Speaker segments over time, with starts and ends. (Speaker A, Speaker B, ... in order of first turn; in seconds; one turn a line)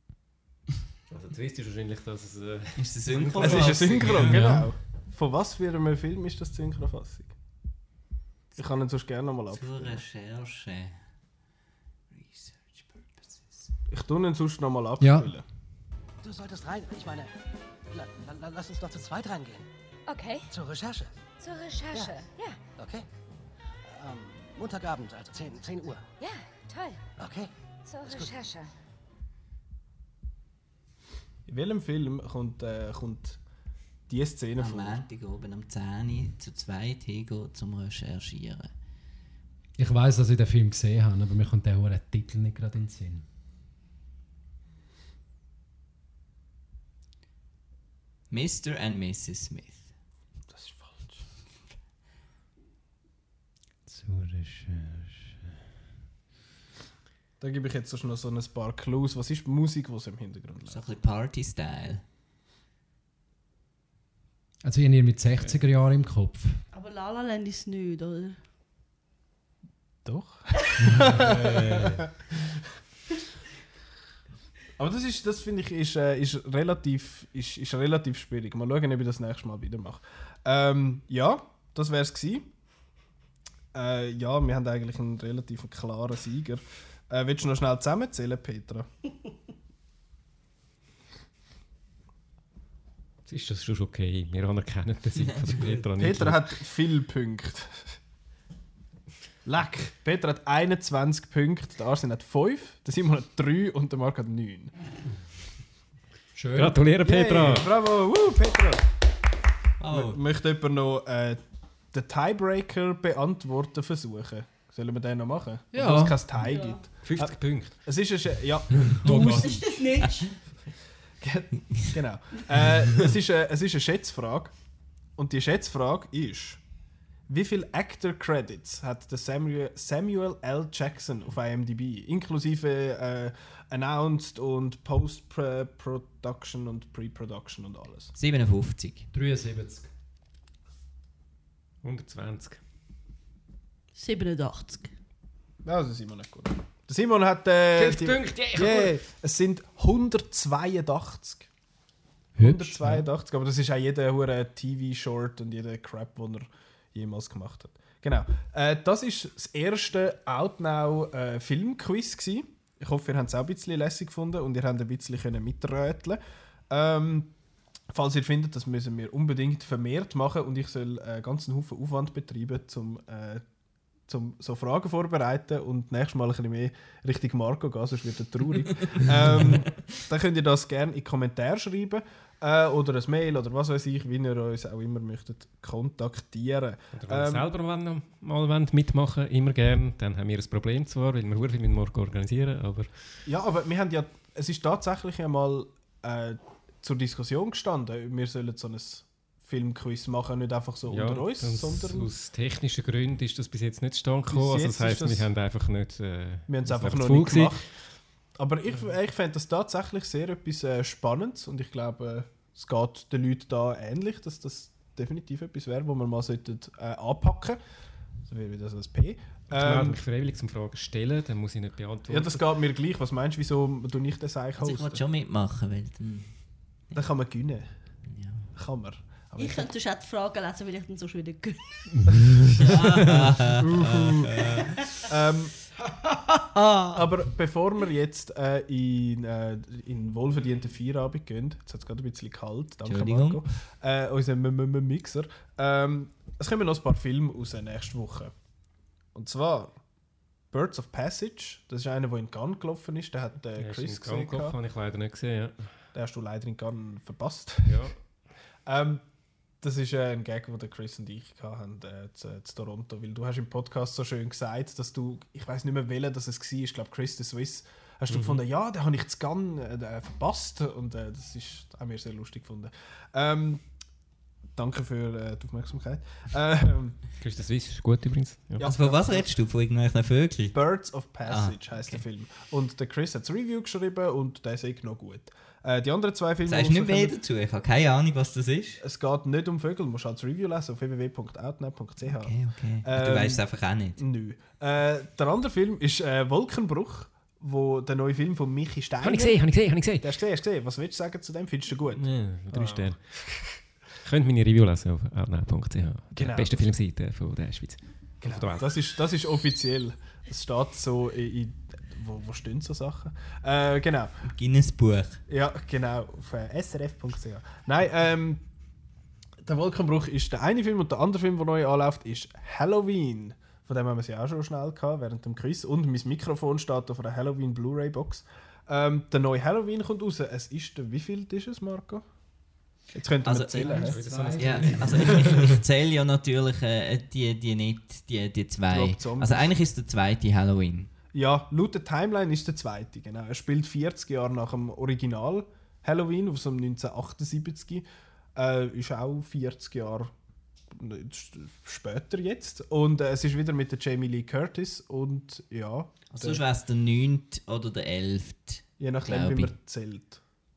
Speaker A: 1.1-4.3
Speaker B: 2.8-4.4
Speaker C: 3.4-7.3
Speaker D: 4.2-4.7
Speaker C: 8.6-10.0
Speaker B: 9.5-11.0
Speaker B: 12.1-13.6
Speaker C: 13.9-15.4
Speaker D: 15.0-15.3
Speaker E: 16.2-17.3
Speaker E: 17.9-19.6
Speaker F: 20.1-20.5
Speaker E: 20.5-21.1
Speaker F: 21.4-22.6
Speaker E: 21.9-22.2
Speaker E: 22.8-23.1
Speaker E: 23.8-26.0
Speaker F: 26.2-27.0
Speaker E: 27.2-27.5
Speaker F: 27.9-28.6
Speaker E: 28.0-28.4
Speaker C: 31.5-33.4
Speaker C: 34.1-35.0
Speaker B: 34.6-38.7
Speaker D: 39.8-43.2
Speaker B: 48.3-49.9
Speaker C: 50.5-51.2
Speaker D: 53.9-55.3
Speaker C: 57.4-60.8
Speaker B: 60.7-62.0
Speaker D: 64.6-66.6
Speaker G: 66.7-68.4
Speaker C: 70.0-72.1
Speaker D: 70.8-72.0
Speaker A: 71.2-71.7
Speaker C: 74.8-82.5
Speaker C: 83.7-88.9
Speaker A: 93.2-96.4
Speaker C: 96.0-98.0
Speaker C: 99.5-104.7
Speaker D: 106.3-106.8
Speaker A: 106.5-107.7
Speaker C: 107.0-108.8
Speaker B: 109.8-110.2
Speaker C: 109.9-111.4
Speaker C: 111.9-119.5
Speaker D: 115.7-116.2
Speaker G: 116.4-116.8
Speaker A: 117.0-117.7
Speaker D: 118.8-119.8
Speaker G: 119.0-120.3
Speaker C: 121.2-124.5
Speaker C: 125.2-126.6
Speaker C: 127.3-138.1
Speaker B: 138.1-139.1
Speaker D: 139.1-139.9
Speaker A: 141.8-142.6
Speaker G: 143.9-144.9
Speaker C: 145.6-151.5
Speaker A: 147.7-149.0
Speaker D: 152.4-153.0
Speaker C: 152.4-166.2
Speaker C: 166.7-167.3
Speaker C: 167.9-173.4
Speaker C: 174.1-187.4
Speaker A: 186.9-192.9
Speaker C: 193.2-202.1
Speaker A: 200.9-207.6
Speaker C: 204.3-205.3
Speaker C: 206.5-207.7
Speaker C: 208.4-217.6
Speaker C: 218.3-220.0
Speaker A: 219.5-222.4
Speaker C: 222.1-225.0
Speaker B: 224.6-226.3
Speaker C: 226.9-227.7
Speaker B: 228.1-228.5
Speaker C: 228.5-229.7
Speaker G: 229.4-231.9
Speaker D: 232.0-233.3
Speaker C: 232.1-234.4
Speaker B: 232.7-234.7
Speaker C: 234.9-235.5
Speaker C: 236.9-248.3
Speaker B: 242.8-243.4
Speaker C: 249.1-249.8
Speaker C: 250.5-254.6
Speaker A: 253.6-255.8
Speaker C: 255.9-257.9
Speaker A: 257.6-258.0
Speaker C: 258.6-259.0
Speaker C: 259.6-273.6
Speaker A: 268.1-268.4
Speaker C: 274.6-277.0
Speaker A: 277.2-278.6
Speaker C: 278.6-279.3
Speaker B: 278.6-280.6
Speaker C: 280.5-287.2
Speaker B: 281.2-282.0
Speaker B: 286.4-288.8
Speaker C: 288.8-302.9
Speaker B: 292.0-294.0
Speaker A: 299.0-300.0
Speaker A: 301.9-308.7
Speaker C: 306.1-306.7
Speaker C: 308.2-314.1
Speaker B: 314.2-315.2
Speaker C: 315.3-318.4
Speaker C: 319.4-332.0
Speaker C: 332.9-334.0
Speaker B: 333.2-340.9
Speaker A: 333.7-335.4
Speaker D: 333.7-335.6
Speaker C: 338.7-339.5
Speaker C: 341.1-347.8
Speaker C: 348.4-350.1
Speaker C: 350.7-356.4
Speaker B: 356.1-359.5
Speaker C: 358.8-360.2